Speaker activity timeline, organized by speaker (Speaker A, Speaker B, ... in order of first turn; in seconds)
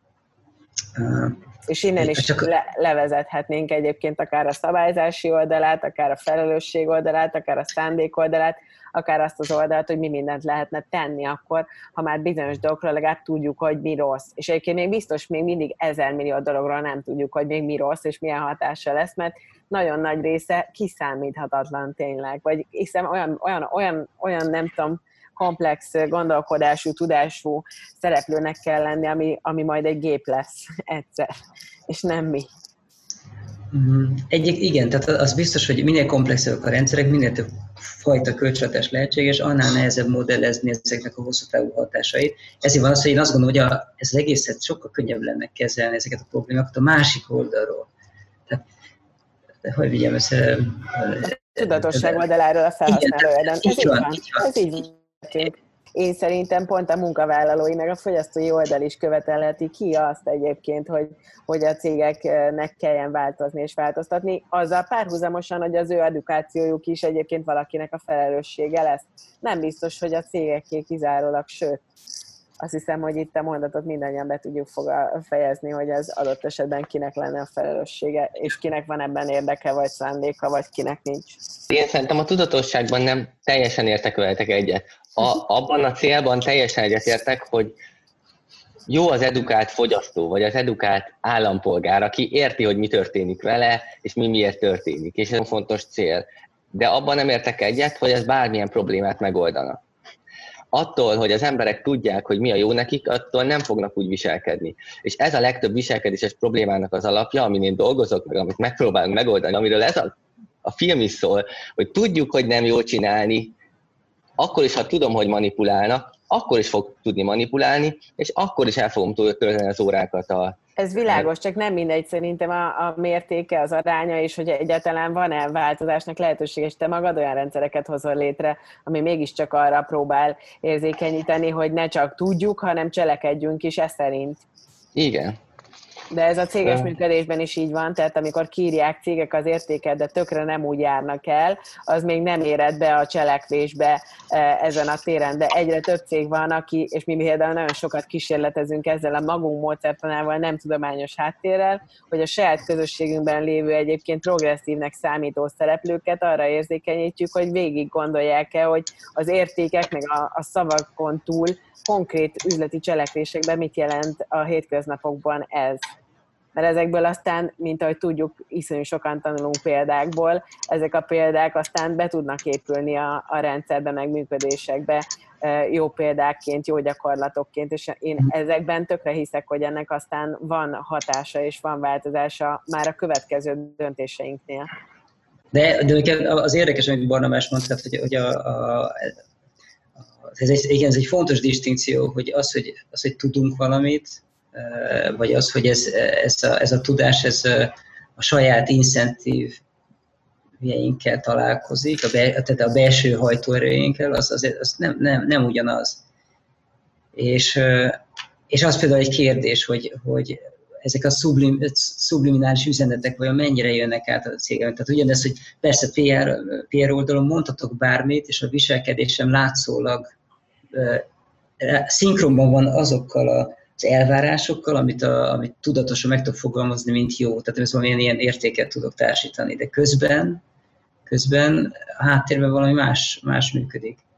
Speaker A: 0.9-1.4, 2.0-2.5, 33.7-47.9, 49.6-52.2, 52.9-54.5, 185.5-189.1, 190.2-199.6, 200.6-206.0, 207.1-220.1, 220.7-221.1, 221.6-230.4, 231.1-234.0
Speaker B: 1.7-31.4, 31.9-32.5, 51.2-71.8, 72.6-81.4, 120.8-134.4, 136.1-165.9, 166.5-184.7
Speaker C: 81.7-87.7, 88.9-99.8, 100.7-110.1, 110.6-113.5, 114.4-121.3, 134.9-135.4, 136.6-136.9